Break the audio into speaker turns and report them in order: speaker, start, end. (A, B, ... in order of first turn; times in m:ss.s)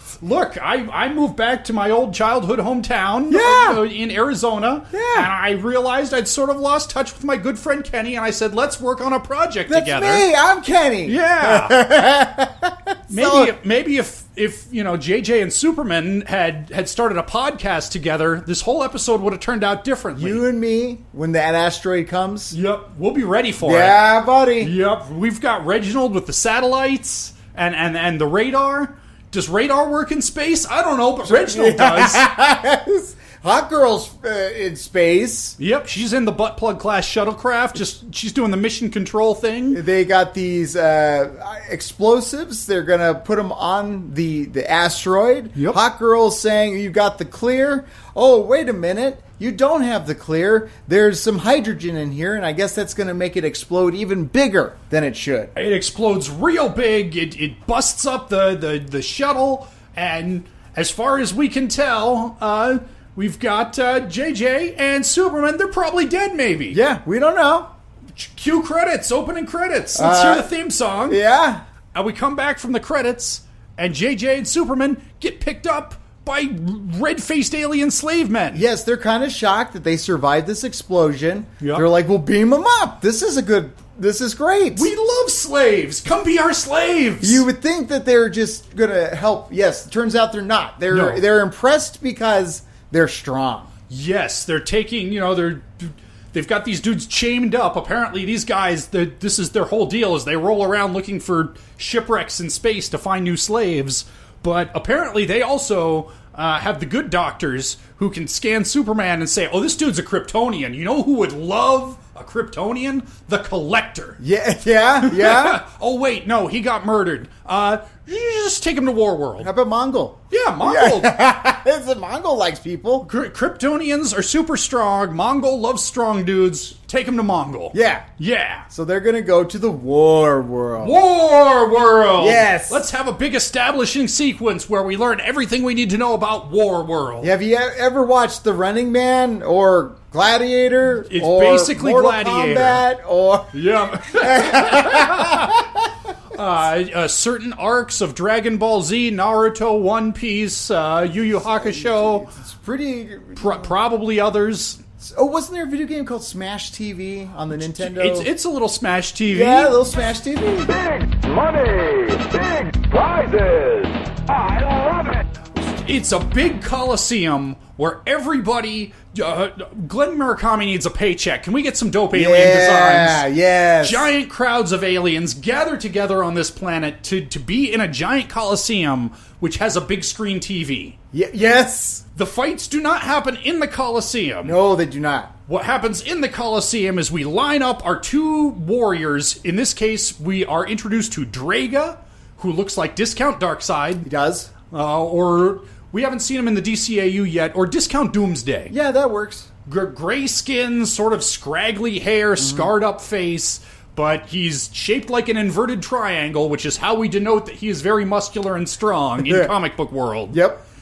0:00.2-0:10.3 A
0:03.3-0:03.8 B
0:04.9-0:05.3 B
0:09.7-0:13.5 B
0:11.0-0:11.8 A
0:13.1-0:20.4 A
0:20.2-0:22.6 B
0:22.5-0:24.0 A
0:23.6-0:24.8 B
0:24.6-0:32.3 A
0:31.2-0:35.6 B
0:35.6-0:39.8 A
0:39.7-0:55.5 B
0:55.6-1:06.8 A
1:06.7-1:07.7 B
1:08.2-1:11.2 A
1:10.0-1:10.5 B
1:11.1-1:11.6 B
1:11.9-1:18.6 A
1:18.5-1:24.9 B
1:24.7-1:27.4 A
1:27.2-1:33.7 B
1:30.9-1:31.2 A
1:33.9-1:54.2 A
1:54.2-1:55.6 B
1:55.0-1:59.5 A
1:59.4-2:03.1 B
2:00.3-2:01.2 A
2:03.0-2:08.7 A
2:07.7-2:08.1 B
2:08.7-2:11.0 B
2:10.8-2:17.3 A
2:12.2-2:12.8 B
2:17.2-2:25.8 B
2:21.1-2:22.8 A
2:23.5-2:25.6 A
2:26.3-2:32.3 A
2:31.2-2:33.8 B
2:33.4-2:34.8 A
2:35.0-2:38.3 B
2:37.6-2:39.8 A
2:39.3-2:40.8 B
2:40.7-2:45.2 C
2:45.6-2:53.3 A
2:52.1-2:54.1 B
2:53.8-3:01.0 A
3:01.1-3:02.0 B
3:02.2-3:04.6 A
3:04.4-3:05.3 B
3:05.5-3:14.1 A
3:14.0-3:14.5 B
3:14.7-3:18.7 A
3:18.7-3:19.5 B
3:19.7-3:30.4 A
3:22.4-3:22.7 B
3:29.2-3:29.5 B
3:30.3-3:30.6 B